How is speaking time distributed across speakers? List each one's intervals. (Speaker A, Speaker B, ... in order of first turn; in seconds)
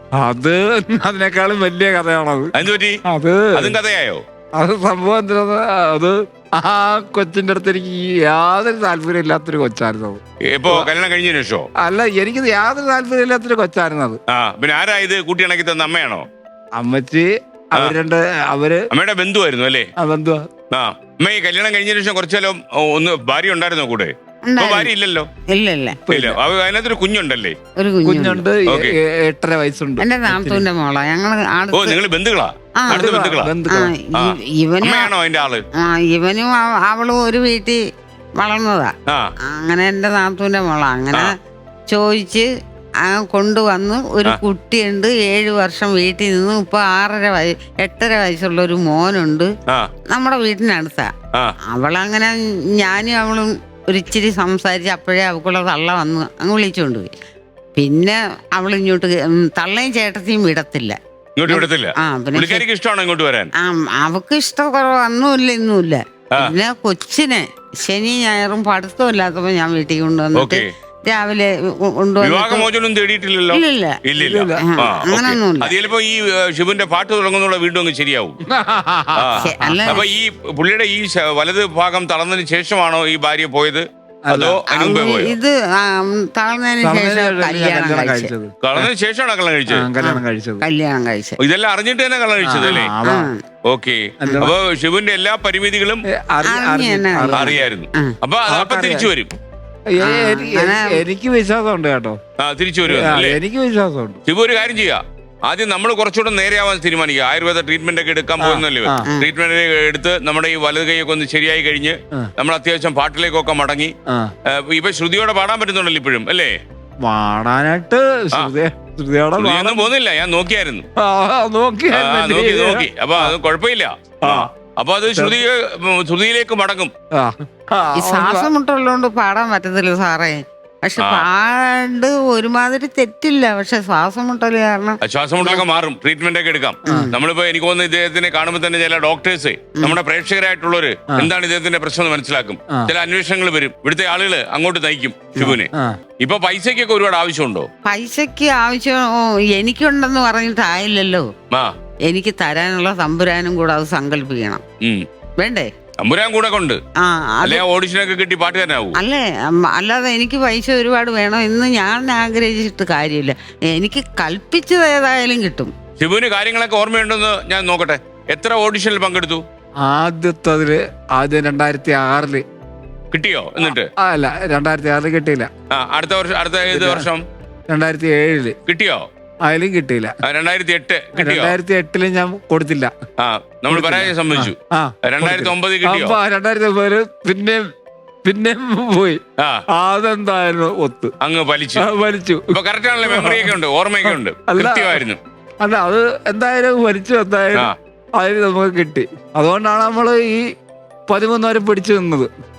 Speaker A: 0.2-2.5, 3.1-3.8, 4.5-10.9, 11.8-14.2, 16.8-18.9, 20.0-20.4, 26.1-26.4, 28.0-30.6, 32.9-33.9, 74.2-74.6, 78.5-80.0, 84.2-84.6, 86.8-88.9, 89.7-90.6, 92.4-93.3, 94.2-94.5, 96.2-97.5, 98.5-99.1, 99.9-102.2, 102.9-104.2, 108.4-109.0, 117.0-119.9, 121.0-123.3, 124.2-124.5, 125.1-125.4, 127.1-128.5, 136.9-137.1, 145.4-145.9, 169.8-172.4, 173.6-175.5, 176.7-177.1, 177.7-178.6, 179.4-180.1, 181.2-182.9, 183.7-187.6, 188.2-189.2, 189.7-191.1, 191.8-195.0, 195.6-200.4, 201.1-202.3
Speaker B: 2.5-3.0, 3.5-4.2, 10.4-11.7, 14.3-16.2, 18.9-19.9, 20.7-25.3, 26.1-27.6, 28.7-28.9, 31.7-33.5, 34.1-35.6, 61.4-63.5, 70.3-70.7, 72.2-78.4, 79.2-85.3, 88.6-89.9, 91.4-92.9, 93.7-96.0, 97.3-99.3, 102.4-103.4, 104.2-113.9, 114.5-116.5, 119.4-120.8, 121.9-126.9, 131.0-131.2, 135.0-145.7, 146.2-147.7, 156.0-156.8, 157.4-159.0, 166.0-169.4, 173.1-173.9, 175.7-177.2, 178.7-179.0, 180.2-181.5, 183.2-186.2, 189.4-189.6, 191.2-191.9, 192.5-195.2
Speaker C: 24.4-24.9, 25.5-26.0, 27.8-28.4, 30.0-32.0, 32.8-35.1, 35.8-37.8, 38.4-38.9, 39.5-41.3, 41.9-42.5, 43.0-49.5, 50.1-51.1, 51.7-57.1, 57.8-61.0, 61.5-62.6, 63.6-72.7, 73.5-74.0, 74.6-75.7, 79.4-80.1, 84.7-88.3, 90.0-91.4, 92.6-93.4, 96.5-98.1, 100.0-101.0, 128.0-135.6, 136.8-137.2, 147.8-151.3, 152.1-154.6, 155.4-155.7, 157.0-157.6, 159.0-165.7